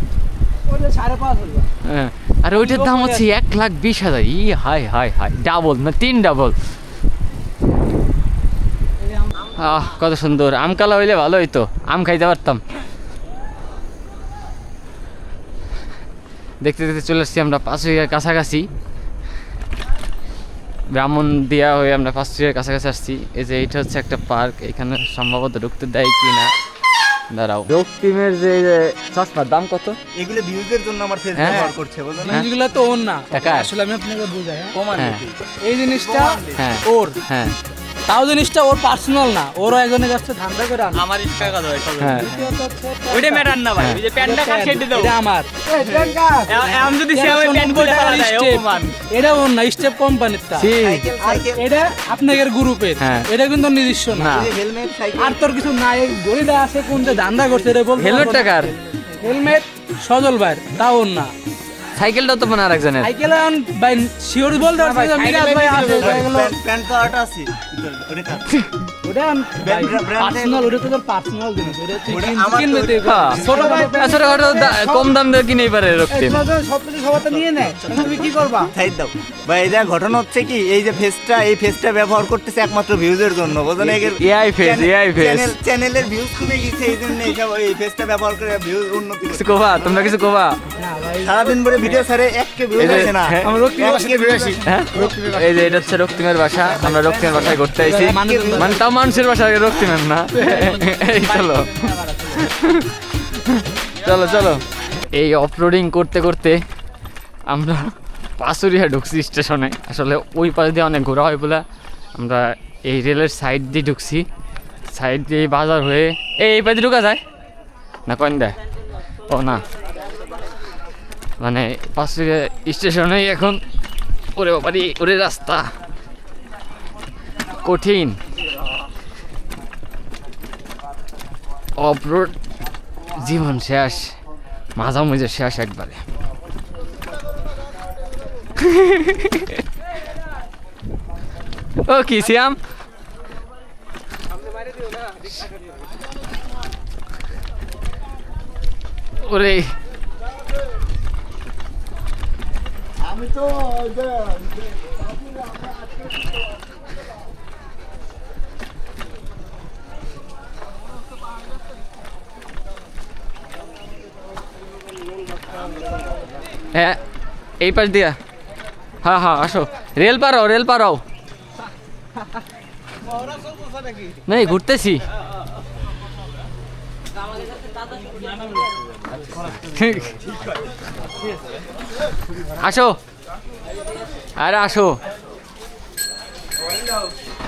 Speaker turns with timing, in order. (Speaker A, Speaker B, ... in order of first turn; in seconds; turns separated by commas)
Speaker A: 0.7-1.7, Speaker B: 1.8-6.6, Speaker A: 2.5-3.2, Speaker B: 9.5-12.6, Speaker B: 16.6-18.7, Speaker B: 20.9-26.5, Speaker B: 27.3-30.0, Speaker C: 30.1-32.5, Speaker B: 31.4-31.7, Speaker A: 32.2-34.8, Speaker B: 33.3-33.7, Speaker C: 34.7-35.4, Speaker B: 35.0-35.2, Speaker A: 35.6-37.1, Speaker C: 36.0-36.6, Speaker B: 36.6-37.5, Speaker A: 38.1-41.1, Speaker D: 40.9-42.2, Speaker B: 42.0-42.3, Speaker A: 42.1-54.4, Speaker D: 43.1-45.1, Speaker B: 43.8-44.0, Speaker D: 45.8-49.0, Speaker B: 50.6-51.1, Speaker C: 50.8-51.6, Speaker B: 53.0-53.3, Speaker B: 54.1-54.5, Speaker C: 54.3-55.4, Speaker A: 55.2-58.5, Speaker B: 58.0-58.8, Speaker C: 58.1-58.5, Speaker A: 59.2-61.3, Speaker B: 62.0-63.1, Speaker A: 63.0-66.5, Speaker C: 64.9-68.5, Speaker A: 69.0-75.1, Speaker C: 69.6-70.7, Speaker C: 72.1-73.8, Speaker B: 73.0-76.4, Speaker A: 76.1-78.7, Speaker C: 77.8-90.1, Speaker B: 83.8-85.5, Speaker B: 89.3-90.6, Speaker A: 90.8-91.6, Speaker C: 91.2-94.6, Speaker B: 92.8-93.5, Speaker A: 92.8-95.9, Speaker B: 94.6-106.6, Speaker C: 96.8-98.8, Speaker A: 97.7-98.8, Speaker A: 100.3-100.8, Speaker B: 107.5-111.6, Speaker B: 112.2-114.3, Speaker B: 114.9-117.2, Speaker B: 118.1-118.6, Speaker B: 119.3-119.6, Speaker B: 121.4-123.6, Speaker B: 124.3-125.7, Speaker B: 127.6-128.2, Speaker B: 131.8-132.4, Speaker B: 133.2-134.2, Speaker B: 134.8-136.0, Speaker B: 138.6-139.6, Speaker B: 141.8-142.6, Speaker B: 149.2-149.7, Speaker B: 167.6-168.2, Speaker B: 169.0-171.0, Speaker B: 174.3-175.0, Speaker B: 179.5-180.2, Speaker B: 182.5-183.0, Speaker B: 184.4-185.0